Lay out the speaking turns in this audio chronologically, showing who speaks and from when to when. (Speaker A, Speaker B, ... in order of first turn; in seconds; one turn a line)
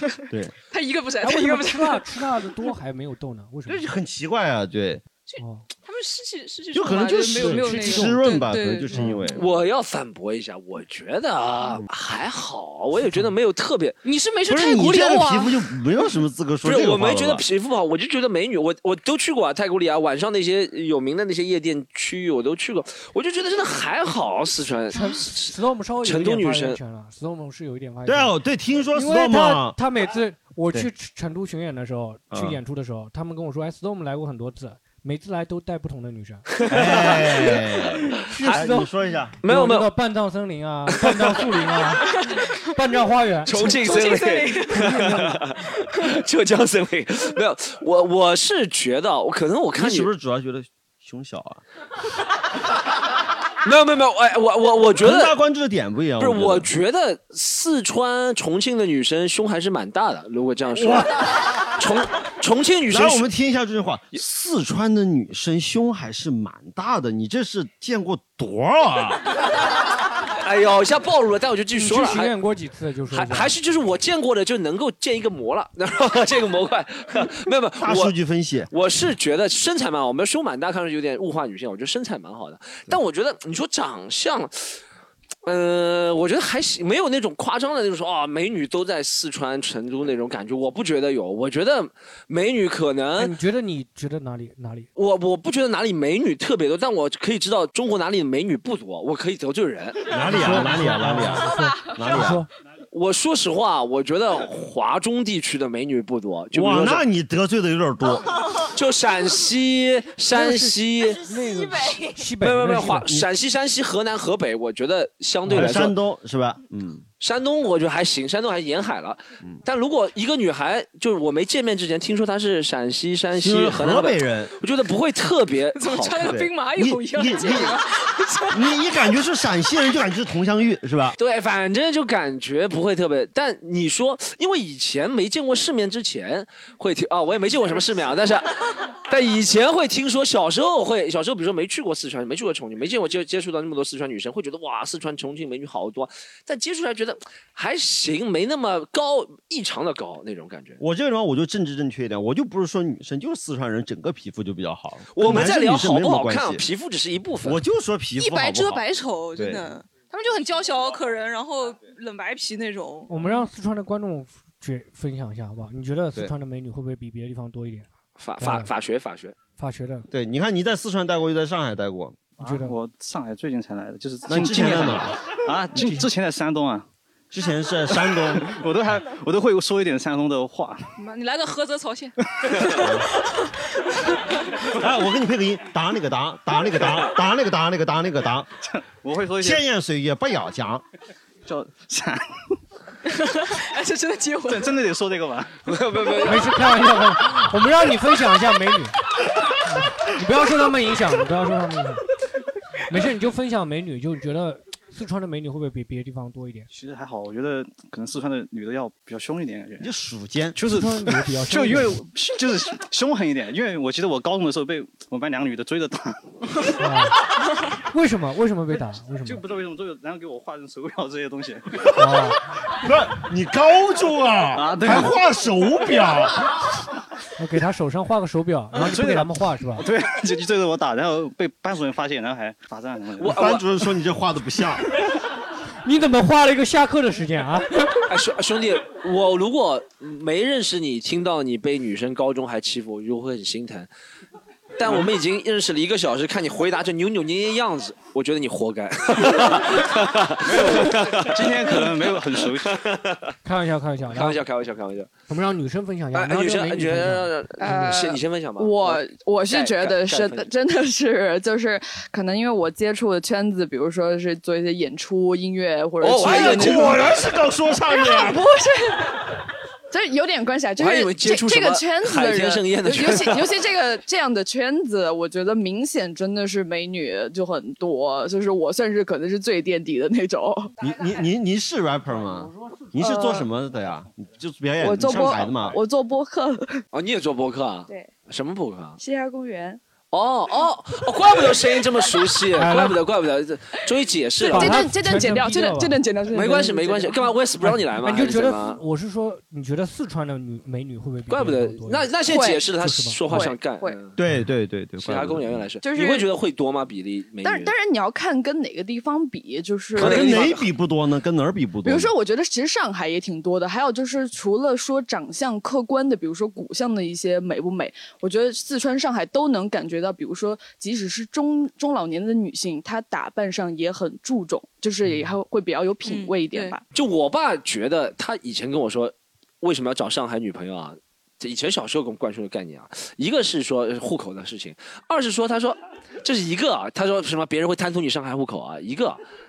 Speaker A: 0.3-0.5
Speaker B: 0.7-2.1
Speaker C: 1.2-3.8
Speaker A: 3.6-5.0
Speaker B: 5.3-9.4
Speaker C: 5.4-5.7
Speaker A: 6.7-9.4
Speaker C: 7.4-9.2
Speaker D: 9.3-14.0
Speaker C: 13.0-13.3
Speaker B: 14.0-15.7
Speaker A: 14.5-17.4
Speaker D: 16.6-26.8
Speaker C: 24.9-28.3
Speaker A: 28.0-29.8
Speaker C: 28.9-36.6
Speaker A: 32.3-32.6
Speaker D: 36.5-37.5
Speaker A: 36.7-39.4
Speaker C: 38.2-38.9
Speaker D: 38.4-38.7
Speaker D: 39.4-39.9
Speaker C: 39.4-42.1
Speaker D: 40.9-41.5
Speaker C: 42.7-43.8
Speaker D: 43.5-50.1
Speaker B: 43.8-44.8
Speaker C: 44.7-45.4
Speaker A: 49.8-51.6
Speaker D: 53.6-55.3
Speaker A: 55.0-56.7
Speaker D: 56.2-63.2
Speaker A: 60.7-61.1
Speaker A: 62.9-69.2
Speaker D: 70.4-72.3
Speaker C: 71.7-73.5
Speaker D: 73.1-78.1
Speaker A: 77.8-78.7
Speaker D: 78.7-84.8
Speaker D: 85.4-93.3
Speaker C: 93.2-94.9
Speaker D: 95.0-100.1
Speaker A: 100.1-102.4
Speaker C: 100.2-102.5
Speaker D: 102.9-107.0
Speaker A: 106.5-108.3
Speaker D: 108.7-111.2
Speaker C: 110.3-113.1
Speaker D: 112.4-116.0
Speaker A: 115.5-117.0
Speaker D: 117.2-126.4
Speaker A: 123.4-124.5
Speaker B: 125.7-128.7
Speaker A: 126.3-127.8
Speaker A: 128.5-131.2
Speaker D: 131.2-150.8
Speaker A: 150.8-156.6
Speaker D: 155.1-157.6
Speaker A: 157.4-159.7
Speaker B: 158.2-163.1
Speaker C: 163.1-167.9
Speaker D: 168.2-169.3
Speaker C: 168.4-168.7
Speaker C: 169.6-170.1
Speaker A: 170.1-172.2
Speaker E: 172.4-176.9
Speaker C: 172.4-172.8
Speaker A: 174.3-175.2
Speaker C: 175.8-176.1
Speaker A: 177.3-178.5
Speaker E: 177.9-180.8
Speaker B: 181.0-184.3
Speaker A: 182.8-183.1
Speaker A: 184.8-188.5
Speaker E: 188.6-189.6
Speaker A: 189.4-190.8
Speaker E: 191.4-192.5
Speaker B: 193.1-194.7
Speaker E: 194.5-195.6
Speaker D: 195.7-196.5
Speaker C: 196.2-198.9
Speaker C: 199.7-202.0
Speaker C: 202.9-206.7
Speaker E: 206.7-209.9
Speaker A: 209.8-210.6
Speaker E: 210.5-216.4
Speaker C: 210.6-212.0
Speaker C: 216.8-217.2
Speaker C: 217.9-219.4
Speaker E: 219.2-221.9
Speaker C: 221.9-222.4
Speaker A: 222.8-226.6
Speaker E: 224.5-225.2
Speaker C: 227.4-229.9
Speaker E: 228.7-233.4
Speaker D: 233.2-233.6
Speaker A: 233.2-234.8
Speaker C: 235.8-238.0
Speaker D: 238.1-243.9
Speaker D: 244.8-253.3
Speaker E: 250.4-252.9
Speaker C: 253.4-254.4
Speaker D: 254.1-255.1
Speaker C: 255.3-257.3
Speaker D: 256.1-260.5
Speaker F: 257.6-267.2
Speaker D: 266.0-267.1
Speaker A: 266.1-268.4
Speaker F: 267.9-269.2
Speaker F: 269.9-280.7
Speaker D: 270.8-273.5
Speaker A: 280.8-285.8
Speaker F: 283.0-283.5
Speaker F: 284.8-286.8
Speaker D: 286.9-289.0
Speaker F: 289.0-289.8
Speaker D: 290.1-294.9
Speaker C: 292.6-293.0
Speaker F: 294.4-297.2
Speaker C: 294.5-296.0
Speaker D: 296.3-298.8
Speaker C: 297.6-302.1
Speaker D: 301.3-304.1
Speaker F: 302.2-302.7
Speaker C: 302.8-303.2
Speaker F: 303.2-304.0
Speaker A: 304.1-305.6
Speaker D: 305.0-307.7
Speaker F: 305.8-306.3
Speaker F: 307.4-310.6
Speaker D: 309.9-310.6
Speaker A: 310.0-312.1
Speaker F: 311.8-326.8
Speaker C: 325.1-325.3
Speaker D: 326.9-339.2